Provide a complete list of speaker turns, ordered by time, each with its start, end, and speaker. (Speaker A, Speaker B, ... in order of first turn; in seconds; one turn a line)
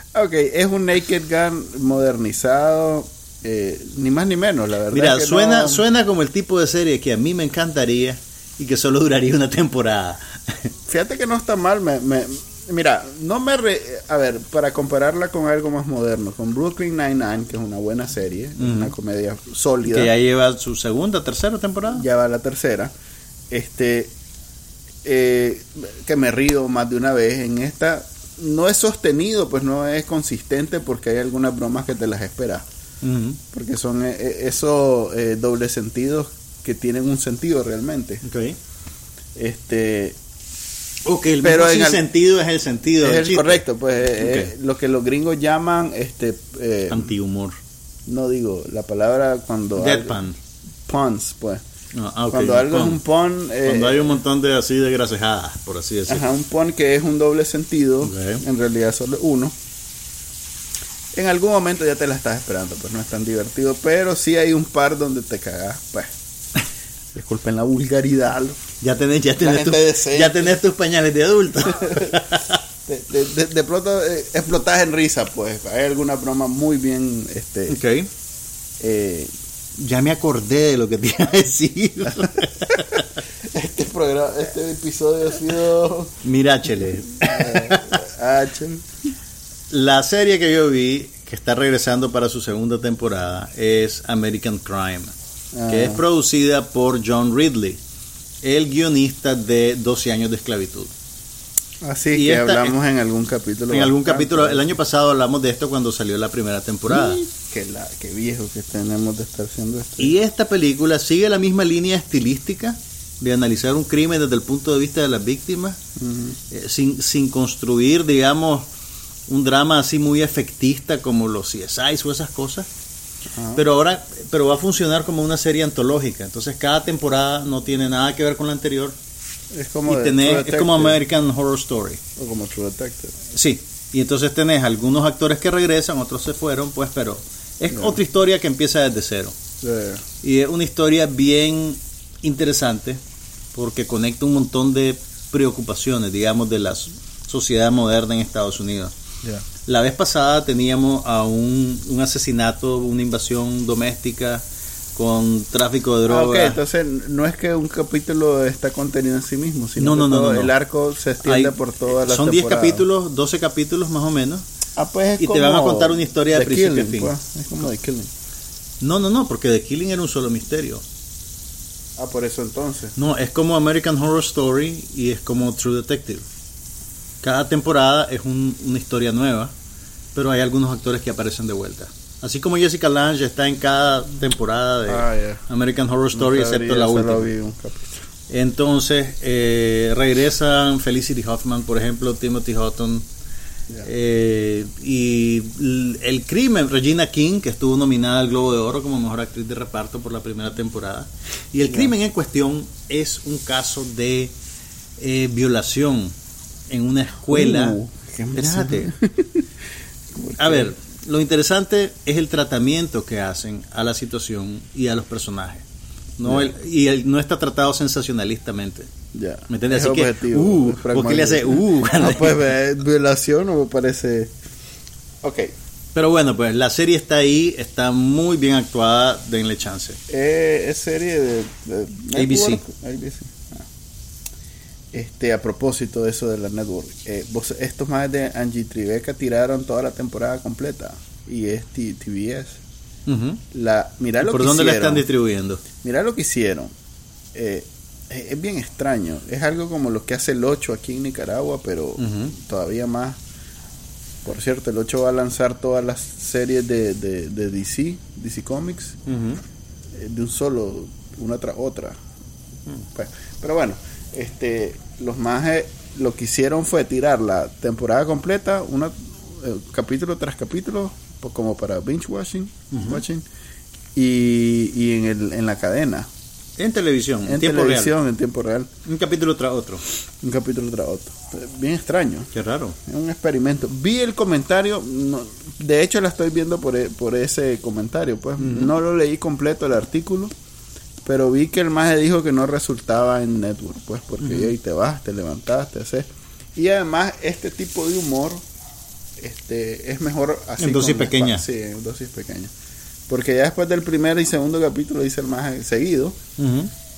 Speaker A: 0.1-5.8
Speaker B: 4.9-10.7
Speaker A: 10.9-20.1
Speaker B: 18.6-18.9
Speaker B: 19.9-22.1
Speaker A: 21.9-22.9
Speaker A: 23.5-24.1
Speaker A: 25.0-32.6
Speaker B: 33.0-33.4
Speaker A: 33.5-38.2
Speaker B: 38.2-38.6
Speaker A: 39.4-40.2
Speaker B: 41.1-43.6
Speaker A: 41.4-42.0
Speaker A: 43.0-47.1
Speaker B: 44.2-44.5
Speaker B: 46.9-47.6
Speaker A: 48.1-50.2
Speaker B: 49.8-50.4
Speaker A: 50.9-51.6
Speaker B: 51.9-53.0
Speaker A: 52.3-54.1
Speaker B: 53.7-56.3
Speaker A: 56.1-59.5
Speaker B: 58.0-58.4
Speaker A: 61.1-66.1
Speaker A: 67.1-68.6
Speaker B: 68.8-72.6
Speaker A: 69.4-70.5
Speaker A: 71.7-72.2
Speaker A: 72.9-77.8
Speaker B: 77.7-78.1
Speaker A: 78.8-79.3
Speaker B: 79.8-83.2
Speaker A: 82.7-86.2
Speaker B: 86.2-88.0
Speaker A: 87.2-88.9
Speaker B: 89.7-95.1
Speaker A: 95.5-96.0
Speaker B: 95.7-97.8
Speaker B: 98.4-100.9
Speaker A: 101.8-104.7
Speaker B: 102.1-102.8
Speaker B: 103.7-107.2
Speaker A: 106.9-110.1
Speaker B: 110.0-115.8
Speaker A: 116.0-116.4
Speaker B: 116.5-118.7
Speaker B: 119.3-122.7
Speaker A: 123.3-123.6
Speaker B: 123.5-129.0
Speaker A: 129.5-131.0
Speaker B: 129.9-132.0
Speaker A: 132.2-133.2
Speaker B: 133.3-139.4
Speaker A: 137.7-138.0
Speaker A: 139.6-140.0
Speaker B: 140.2-143.0
Speaker B: 143.6-148.9
Speaker B: 149.7-154.4
Speaker B: 155.0-156.6
Speaker A: 156.1-162.8
Speaker B: 159.8-160.5
Speaker B: 161.2-164.4
Speaker A: 164.8-168.1
Speaker B: 165.2-167.1
Speaker B: 168.8-170.8
Speaker A: 172.0-172.9
Speaker B: 173.0-176.2
Speaker B: 177.2-179.5
Speaker B: 180.2-187.3
Speaker A: 184.9-185.4
Speaker A: 186.1-188.1
Speaker B: 188.3-193.1
Speaker B: 193.8-204.3
Speaker B: 205.0-206.1
Speaker B: 206.7-207.8
Speaker A: 207.3-209.4
Speaker B: 208.3-208.9
Speaker A: 210.1-210.7
Speaker B: 210.4-215.6
Speaker B: 216.2-218.9
Speaker A: 216.2-216.5
Speaker A: 219.1-224.3
Speaker B: 219.5-222.4
Speaker A: 225.2-225.5
Speaker B: 225.9-230.0
Speaker A: 230.1-233.7
Speaker B: 232.2-232.6
Speaker A: 234.9-242.6
Speaker B: 243.1-243.4
Speaker A: 243.5-245.0
Speaker B: 244.2-245.6
Speaker A: 245.8-246.7
Speaker A: 247.3-253.2
Speaker B: 252.0-252.3
Speaker A: 254.2-259.0
Speaker B: 259.1-259.4
Speaker A: 259.9-262.0
Speaker A: 262.9-273.2
Speaker B: 272.7-273.0
Speaker A: 273.9-276.1
Speaker B: 276.6-277.9
Speaker A: 277.2-278.7
Speaker B: 278.9-279.8
Speaker A: 280.2-282.3
Speaker B: 282.3-282.8
Speaker A: 282.9-290.3
Speaker B: 288.4-288.7
Speaker A: 291.0-298.4
Speaker B: 294.2-294.5
Speaker A: 299.2-302.5
Speaker B: 300.6-301.4
Speaker A: 303.1-306.2
Speaker B: 306.4-306.7